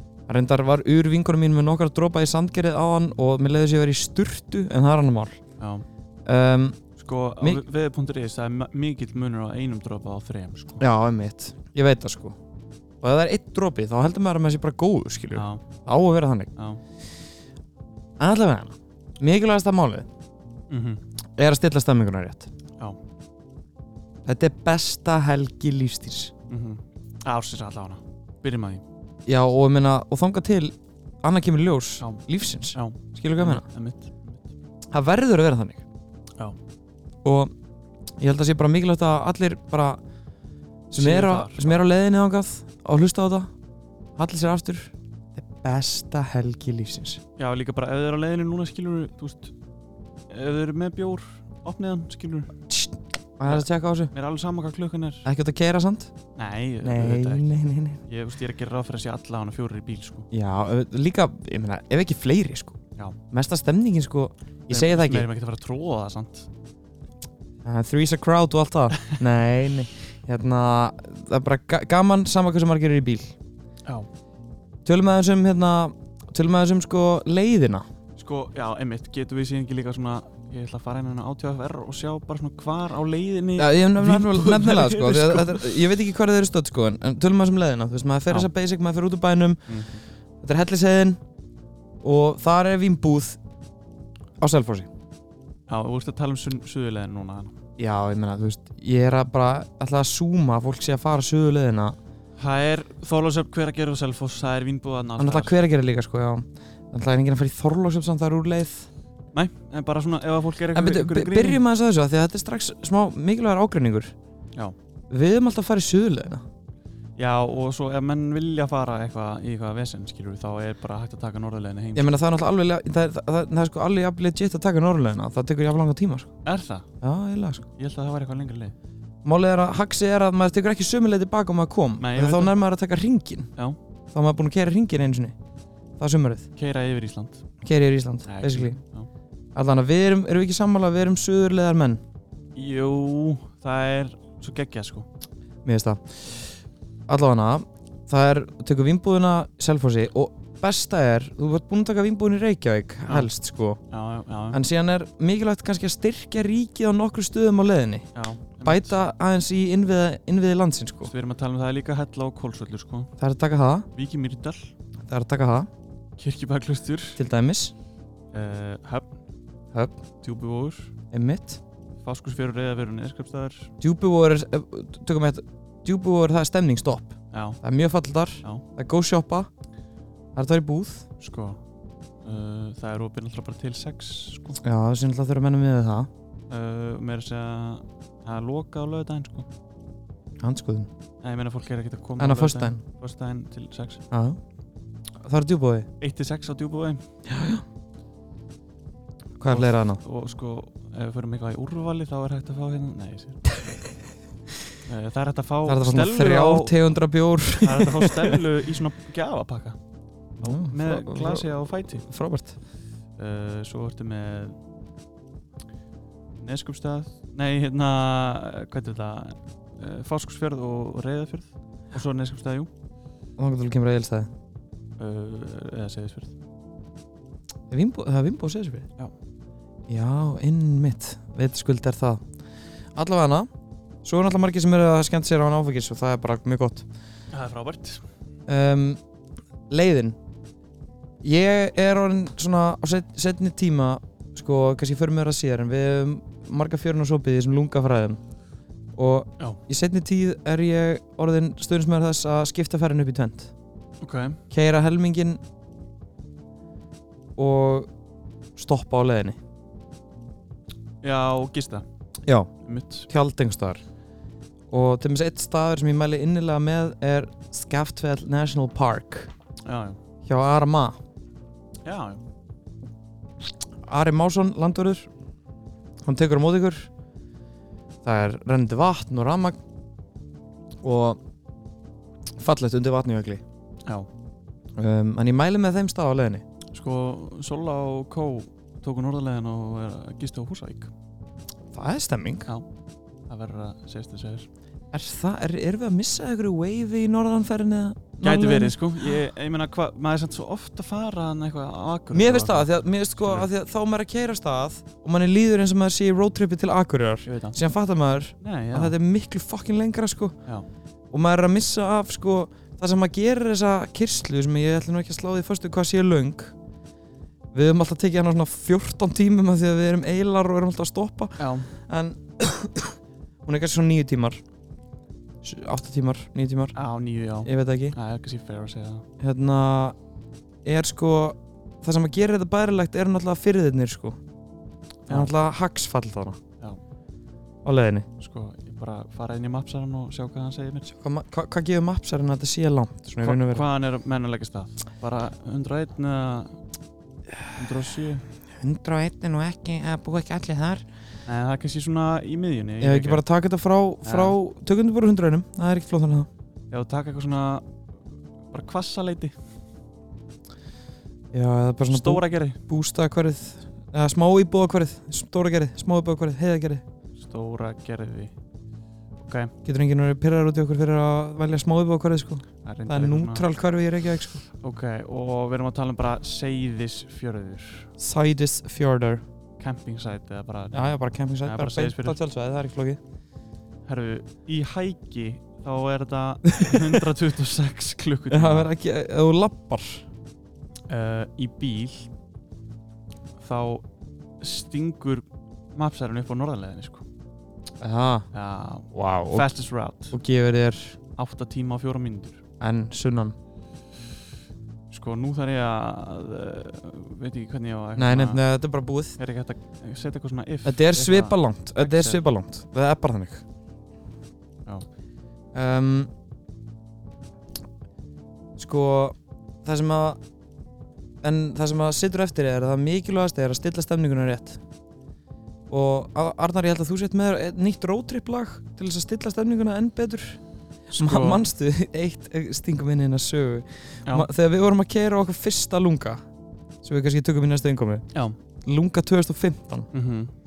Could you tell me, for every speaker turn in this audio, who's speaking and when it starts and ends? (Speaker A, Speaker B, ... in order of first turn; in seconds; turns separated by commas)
Speaker A: 0.3-5.4, Speaker B: 5.6-5.8, Speaker A: 6.3-6.8, Speaker B: 7.0-10.8, Speaker A: 10.8-12.4, Speaker A: 13.0-16.5, Speaker B: 15.3-15.6, Speaker B: 16.6-16.8, Speaker A: 18.2-20.1, Speaker B: 20.7-21.0, Speaker A: 21.4-22.5, Speaker A: 24.2-26.3, Speaker B: 26.5-28.8, Speaker A: 29.3-33.6, Speaker B: 32.7-34.5, Speaker A: 34.9-35.8, Speaker A: 37.2-37.5, Speaker A: 38.2-40.0, Speaker A: 40.9-43.5, Speaker B: 41.0-41.9, Speaker A: 44.2-47.2, Speaker B: 47.4-49.5, Speaker B: 50.3-52.5, Speaker A: 52.7-54.1, Speaker B: 53.5-55.3, Speaker A: 55.2-56.1, Speaker B: 56.4-57.5, Speaker A: 56.8-58.0, Speaker B: 58.1-60.3, Speaker A: 60.3-62.8, Speaker A: 63.3-65.3, Speaker B: 64.7-66.5, Speaker A: 67.6-73.3, Speaker A: 74.8-77.8, Speaker B: 78.2-85.8, Speaker A: 83.6-89.7, Speaker B: 89.7-90.0, Speaker A: 90.4-91.2, Speaker A: 92.0-93.4, Speaker A: 94.4-94.9, Speaker B: 95.7-97.5, Speaker A: 97.8-102.0, Speaker B: 102.4-105.6, Speaker A: 105.2-108.9, Speaker B: 109.3-111.6, Speaker A: 110.7-114.1, Speaker A: 115.1-116.4, Speaker B: 117.2-122.1, Speaker A: 122.0-126.3, Speaker B: 126.5-126.9, Speaker A: 127.0-127.7, Speaker B: 127.8-128.8, Speaker A: 129.2-133.5, Speaker B: 132.0-132.6, Speaker A: 134.1-135.3, Speaker A: 136.0-136.5, Speaker B: 136.6-137.4, Speaker A: 137.6-138.8, Speaker B: 138.3-139.1, Speaker A: 139.6-142.0, Speaker B: 142.6-145.1, Speaker A: 145.7-146.0, Speaker A: 147.1-153.8, Speaker B: 153.9-154.6, Speaker A: 154.5-158.1, Speaker B: 158.2-159.0, Speaker A: 158.6-161.1, Speaker B: 161.0-163.1, Speaker A: 163.2-163.9, Speaker B: 163.9-164.7, Speaker A: 165.1-165.7, Speaker B: 166.2-167.2, Speaker A: 167.2-167.7, Speaker B: 168.3-169.1, Speaker A: 169.7-170.0, Speaker B: 170.2-170.9, Speaker A: 171.1-171.6, Speaker B: 172.0-173.7, Speaker A: 173.8-179.5, Speaker B: 177.3-177.6, Speaker A: 180.3-181.1, Speaker B: 181.2-181.6, Speaker B: 182.2-184.6, Speaker A: 184.6-186.1, Speaker B: 186.5-189.5, Speaker A: 190.4-190.9, Speaker B: 191.2-194.0, Speaker A: 192.2-192.8, Speaker A: 194.1-194.4, Speaker A: 195.2-195.9, Speaker B: 196.0-197.0, Speaker A: 197.3-197.6, Speaker A: 199.4-200.0, Speaker B: 199.5-203.6, Speaker B: 204.9-206.8, Speaker A: 205.7-208.4, Speaker B: 207.6-209.8, Speaker A: 210.4-212.6, Speaker B: 210.4-212.0, Speaker B: 213.2-214.6, Speaker B: 216.4-222.7, Speaker A: 223.4-224.3, Speaker B: 225.0-226.3, Speaker A: 227.7-228.9, Speaker A: 229.9-232.2, Speaker A: 232.9-233.5, Speaker A: 234.0-236.8, Speaker B: 237.3-238.0, Speaker A: 238.5-239.0, Speaker A: 239.7-240.2, Speaker A: 241.2-248.2, Speaker A: 249.0-253.5, Speaker B: 254.0-254.4, Speaker A: 254.5-255.4, Speaker A: 257.4-257.9, Speaker A: 258.6-259.4, Speaker B: 261.0-261.9, Speaker A: 262.3-262.5, Speaker B: 262.6-263.1, Speaker A: 263.1-263.8, Speaker A: 264.7-269.3, Speaker B: 269.6-270.0, Speaker A: 270.3-271.0, Speaker B: 271.9-272.2, Speaker A: 273.9-275.1, Speaker A: 276.0-276.9, Speaker A: 278.0-279.6, Speaker A: 280.8-281.2, Speaker A: 282.4-283.4, Speaker A: 284.8-286.4, Speaker B: 286.7-290.9, Speaker A: 291.7-292.5, Speaker B: 293.3-294.5, Speaker A: 294.9-298.9, Speaker B: 298.2-303.5, Speaker A: 302.1-310.4, Speaker B: 307.3-307.6, Speaker B: 308.4-308.9, Speaker A: 311.1-316.5, Speaker A: 317.5-324.4, Speaker B: 321.4-321.7, Speaker A: 325.4-326.8, Speaker B: 326.8-329.1, Speaker A: 327.4-328.0, Speaker A: 329.2-330.0, Speaker A: 330.6-334.2, Speaker A: 335.1-336.4, Speaker A: 337.6-338.1, Speaker B: 338.2-340.9, Speaker A: 341.0-343.7, Speaker B: 343.2-346.6, Speaker B: 347.6-348.2, Speaker A: 348.6-350.9, Speaker B: 351.3-353.2, Speaker A: 352.8-356.3, Speaker B: 354.0-354.4, Speaker B: 356.7-357.7, Speaker B: 358.5-359.4, Speaker A: 361.3-366.8, Speaker B: 361.9-362.6, Speaker B: 367.2-368.3, Speaker B: 369.2-369.5, Speaker A: 369.6-374.4, Speaker B: 372.6-373.5, Speaker B: 374.6-377.9, Speaker A: 378.0-379.2, Speaker B: 379.6-380.9, Speaker A: 380.7-383.0, Speaker B: 381.4-382.2, Speaker B: 383.9-388.7, Speaker A: 386.6-386.9, Speaker A: 388.3-390.1, Speaker B: 390.9-392.1, Speaker B: 393.4-393.9, Speaker B: 394.4-397.1, Speaker A: 397.8-398.3, Speaker B: 398.3-400.2, Speaker A: 398.9-399.5, Speaker A: 400.1-401.0, Speaker B: 401.2-402.4, Speaker A: 402.6-403.4, Speaker B: 404.9-408.4, Speaker A: 408.0-409.2, Speaker B: 409.2-412.2, Speaker A: 410.6-413.4, Speaker A: 415.5-416.1, Speaker A: 418.6-420.2, Speaker A: 421.2-424.6, Speaker A: 425.7-430.4, Speaker B: 430.9-431.4, Speaker A: 431.0-436.2, Speaker A: 436.8-438.1, Speaker A: 438.6-439.9, Speaker B: 439.9-440.3